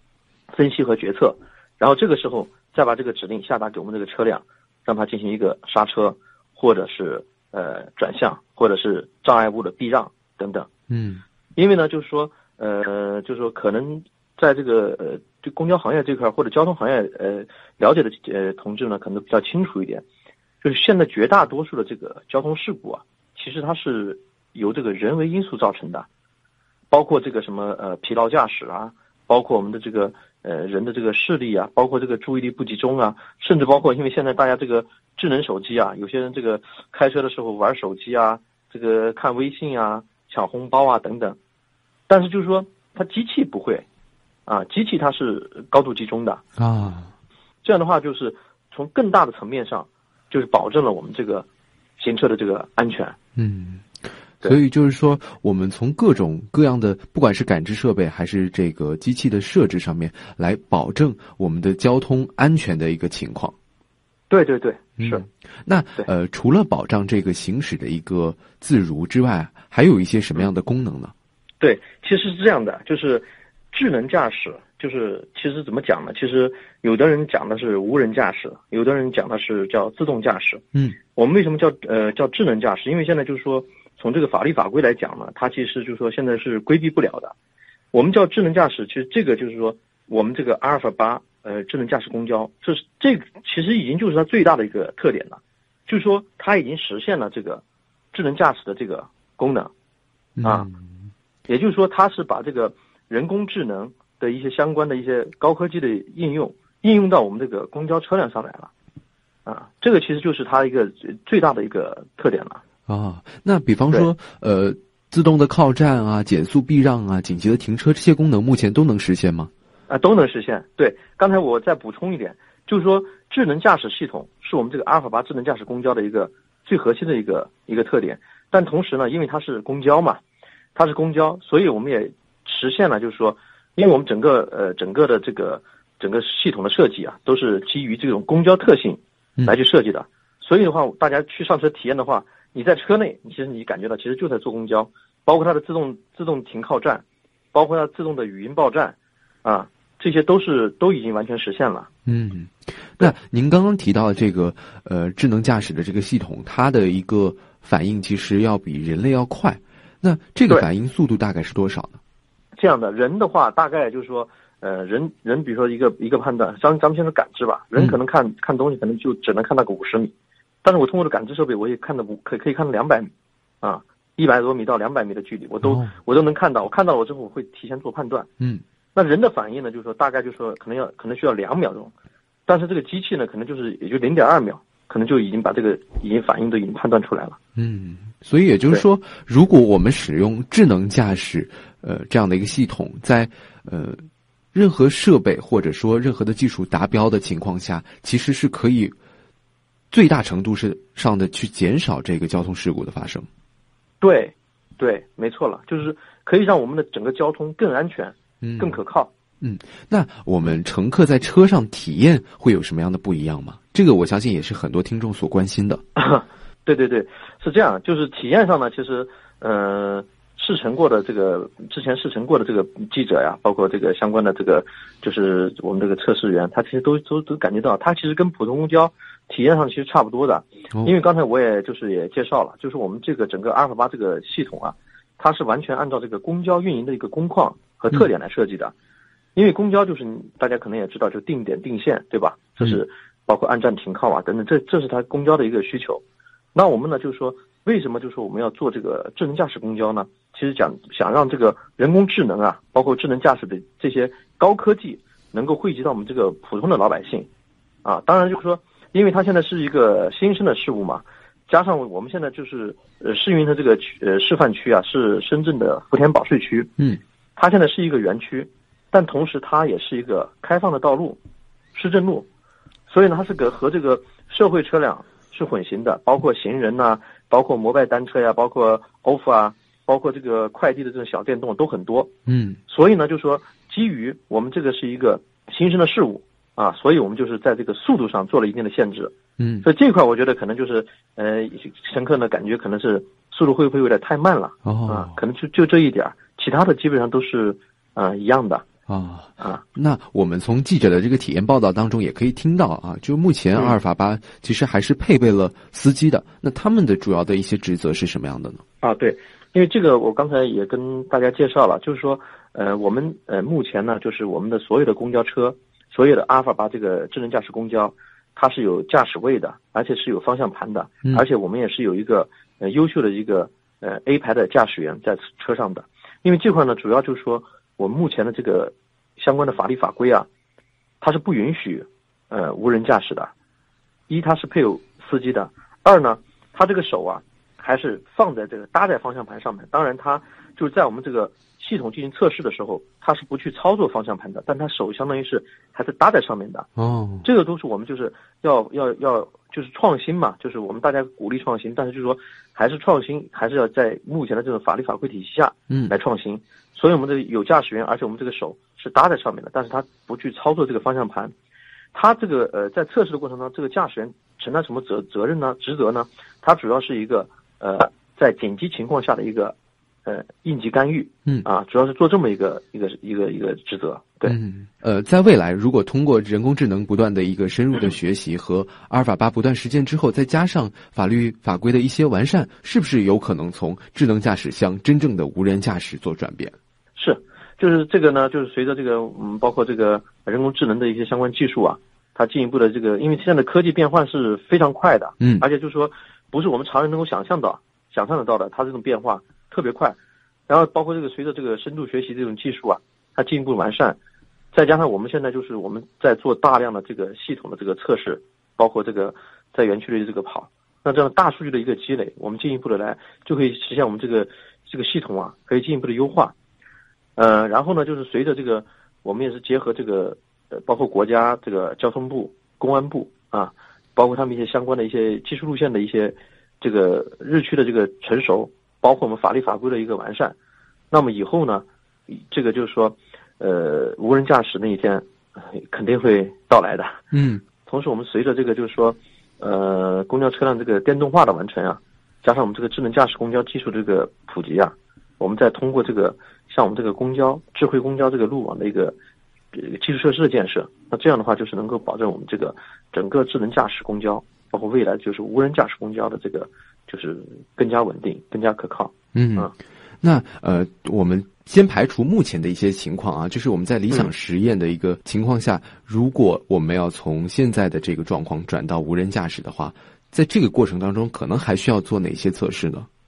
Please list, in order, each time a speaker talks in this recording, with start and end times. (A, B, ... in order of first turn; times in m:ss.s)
0:00.5-0:10.7 A
0:10.9-0:11.2 B
0:11.6-0:20.0 A
0:20.6-0:26.1 A
0:26.9-0:41.4 A
0:42.1-0:43.8 A
0:44.5-0:46.4 A
0:46.6-0:47.1 B
0:47.6-0:51.5 A
0:52.0-0:53.2 A
0:53.4-0:53.9 B
0:54.4-1:03.5 B
1:04.3-1:05.2 A
1:05.0-1:11.1 B
1:11.6-1:27.3 A
1:27.9-1:39.7 A
1:40.4-1:41.1 B
1:41.5-1:48.7 A
1:49.4-1:52.6 A
1:52.9-1:59.5 B
1:59.9-2:10.2 A
2:10.7-2:31.9 A
2:32.0-2:42.0 B
2:42.6-2:50.1 A
2:50.6-2:53.1 A
2:53.6-2:58.3 A
2:55.6-2:55.9 B
2:58.9-3:01.9 A
3:02.5-3:07.4 A
3:07.6-3:14.0 B
3:14.5-3:18.9 B
3:19.9-3:23.3 B
3:24.0-3:29.1 A
3:28.4-3:28.8 B
3:29.4-3:35.8 B
3:36.0-3:58.7 A
3:59.4-4:06.0 A
4:06.5-4:17.3 A
4:17.8-4:26.7 A
4:27.4-4:31.2 A
4:31.7-4:32.3 A
4:32.9-4:42.1 A
4:42.3-4:42.6 B
4:42.7-4:58.6 A
4:49.4-4:49.7 B
4:54.6-4:55.1 B
4:58.9-5:08.6 B
5:08.8-5:30.3 A
5:31.0-5:33.3 A
5:34.1-5:46.7 A
5:46.8-5:47.2 B
5:47.2-6:01.3 A
6:01.9-6:09.5 A
6:10.0-6:14.4 A
6:14.2-6:26.5 B
6:27.0-6:40.0 A
6:35.2-6:35.4 B
6:40.5-6:44.0 A
6:44.5-6:56.3 A
6:57.2-7:10.4 A
7:10.9-7:17.0 A
7:17.1-7:17.4 B
7:17.6-7:28.9 A
7:29.5-7:39.5 A
7:39.1-7:39.5 B
7:40.0-7:52.9 B